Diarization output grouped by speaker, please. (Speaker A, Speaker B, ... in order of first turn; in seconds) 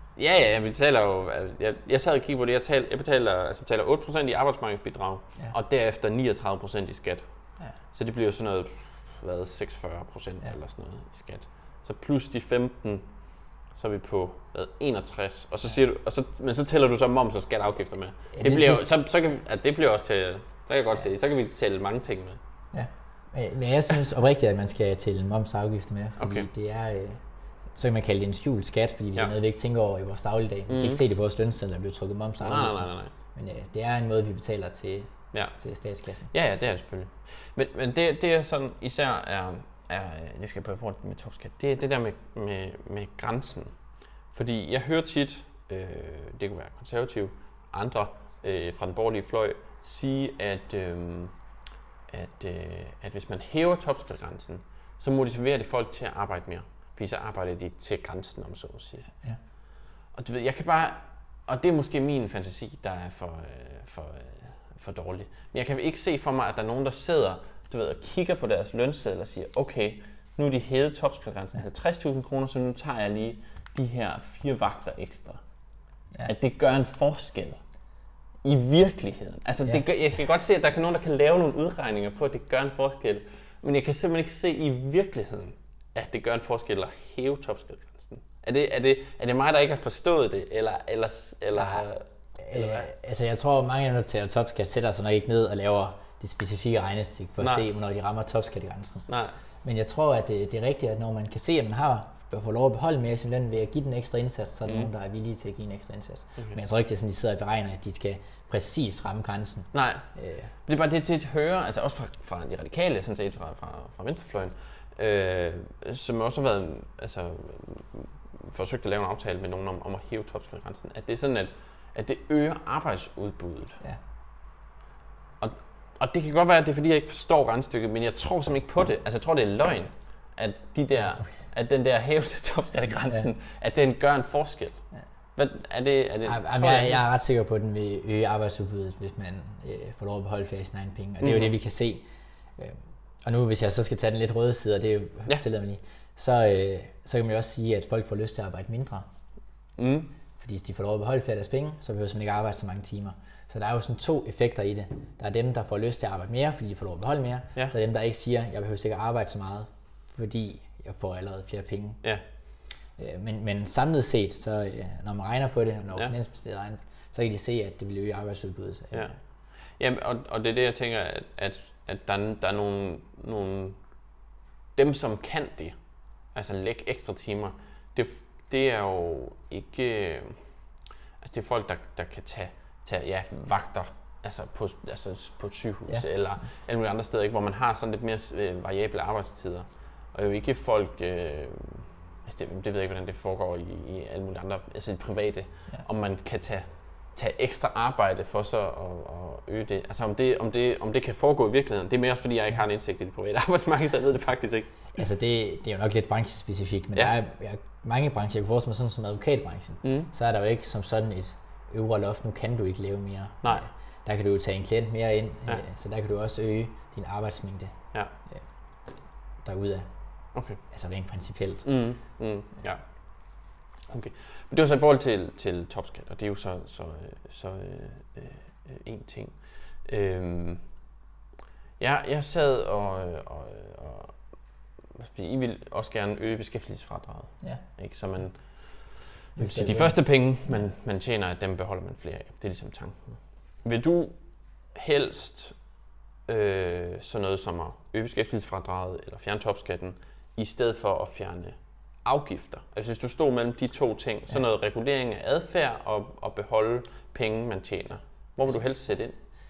Speaker A: 0.2-22.4, 26.2-26.5, 30.7-31.0, 32.4-33.1, 35.3-35.6, 36.3-51.4, 52.1-59.1, 60.1-75.5, 76.3-77.6, 78.4-92.9, 99.1-99.4, 109.7-110.1, 110.7-123.8, 125.4-137.0, 141.2-141.5, 149.8-150.1, 168.9-174.1, 174.8-180.6, 181.2-204.9, 209.8-210.1, 220.3-220.6, 221.6-230.7, 231.8-259.2
Speaker B: 18.3-18.9, 22.7-36.3, 91.5-91.9, 92.4-99.1, 99.6-110.5, 136.2-142.0, 142.6-149.1, 150.4-162.0, 162.9-169.2, 185.9-186.2, 204.9-218.5, 219.4-221.8, 239.4-240.3